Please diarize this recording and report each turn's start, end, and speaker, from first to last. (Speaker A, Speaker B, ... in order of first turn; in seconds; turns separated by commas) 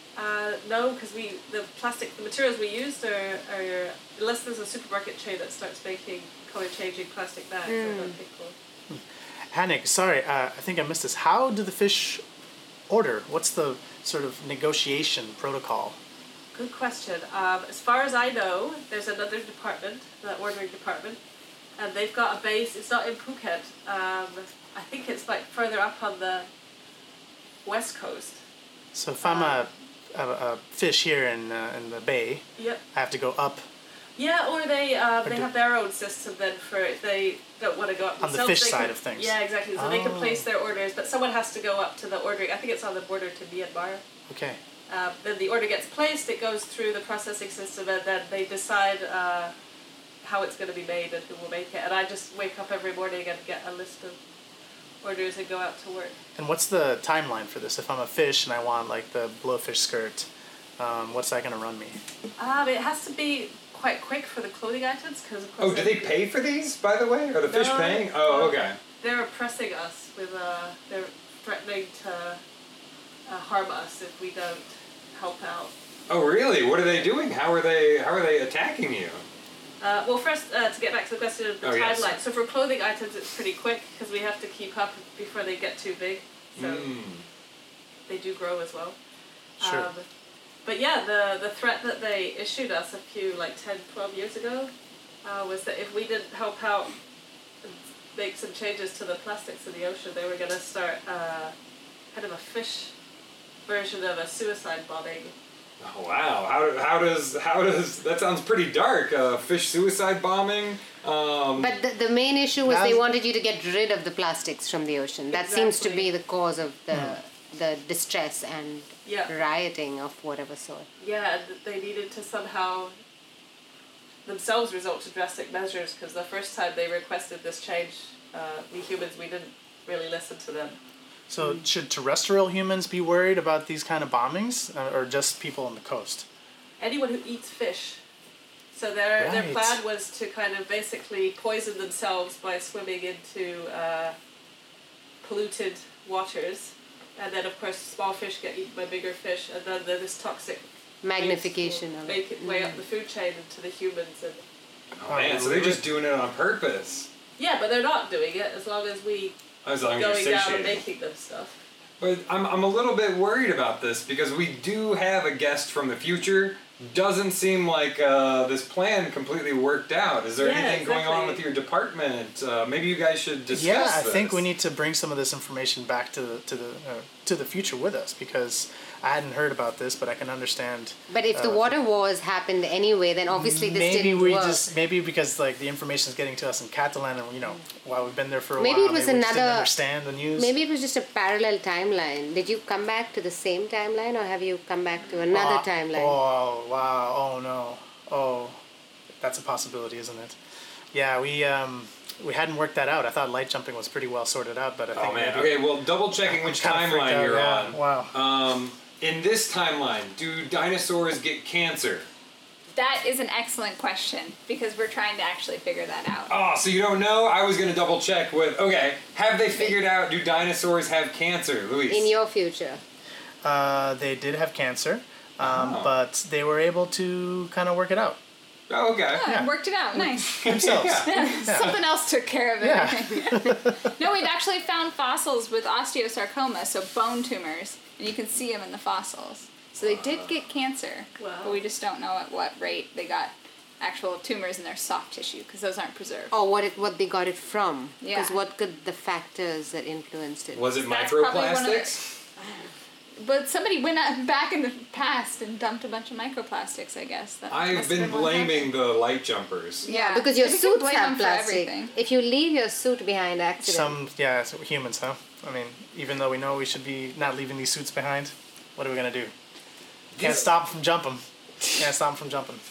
Speaker A: 0.1-8.6, Speaker B: 7.7-8.2, Speaker C: 8.9-12.2, Speaker C: 12.9-16.0, Speaker A: 16.5-21.2, Speaker A: 21.8-26.5, Speaker A: 27.6-28.4, Speaker C: 28.9-33.6, Speaker A: 29.2-29.6, Speaker A: 32.6-32.8, Speaker A: 34.2-44.0, Speaker C: 35.2-35.5, Speaker C: 38.2-40.5, Speaker C: 44.3-44.6, Speaker A: 44.9-49.5, Speaker A: 50.2-54.2, Speaker A: 55.0-56.1, Speaker C: 56.4-62.0, Speaker A: 62.4-66.2, Speaker D: 65.6-68.8, Speaker A: 67.5-72.4, Speaker A: 73.3-75.7, Speaker D: 76.1-79.2, Speaker A: 79.8-86.9, Speaker D: 81.6-82.2, Speaker D: 86.6-87.3, Speaker A: 88.1-89.0, Speaker A: 89.6-90.1, Speaker C: 89.6-89.9, Speaker A: 90.6-94.7, Speaker A: 95.2-96.9, Speaker A: 97.6-101.5, Speaker A: 102.1-102.9, Speaker A: 103.7-105.3, Speaker D: 105.8-111.8, Speaker B: 111.6-120.9, Speaker C: 112.6-113.0, Speaker A: 115.3-116.1, Speaker A: 119.0-119.3, Speaker A: 121.0-122.9, Speaker A: 124.2-130.8, Speaker C: 131.3-136.3, Speaker A: 136.8-138.0, Speaker A: 138.7-144.2, Speaker C: 139.2-139.8, Speaker A: 145.2-154.4, Speaker B: 151.0-152.8, Speaker D: 155.0-157.1, Speaker C: 155.1-155.8, Speaker A: 157.4-159.4, Speaker D: 159.6-160.8, Speaker A: 159.9-161.6, Speaker D: 162.0-174.4, Speaker A: 170.4-171.4, Speaker C: 173.5-181.8, Speaker B: 181.1-184.6, Speaker C: 183.3-190.5, Speaker B: 188.6-189.7, Speaker B: 190.4-196.2, Speaker C: 195.3-198.6, Speaker C: 199.2-200.4, Speaker C: 200.9-208.1, Speaker D: 204.9-212.1, Speaker E: 212.7-216.3, Speaker D: 216.3-222.1, Speaker B: 221.9-222.8, Speaker C: 223.4-228.2, Speaker D: 225.4-225.9, Speaker D: 228.7-229.3, Speaker E: 229.1-246.3, Speaker C: 229.2-231.8, Speaker D: 230.4-231.2, Speaker C: 232.6-233.9, Speaker D: 239.8-240.3, Speaker A: 241.2-241.6, Speaker B: 246.3-250.7, Speaker E: 248.0-248.4, Speaker D: 250.5-252.1, Speaker E: 250.8-252.0, Speaker E: 253.2-258.7, Speaker D: 257.5-259.9, Speaker E: 259.8-261.9, Speaker B: 259.8-264.0, Speaker C: 263.6-269.3, Speaker D: 270.1-270.4, Speaker C: 270.2-271.2, Speaker C: 271.8-272.6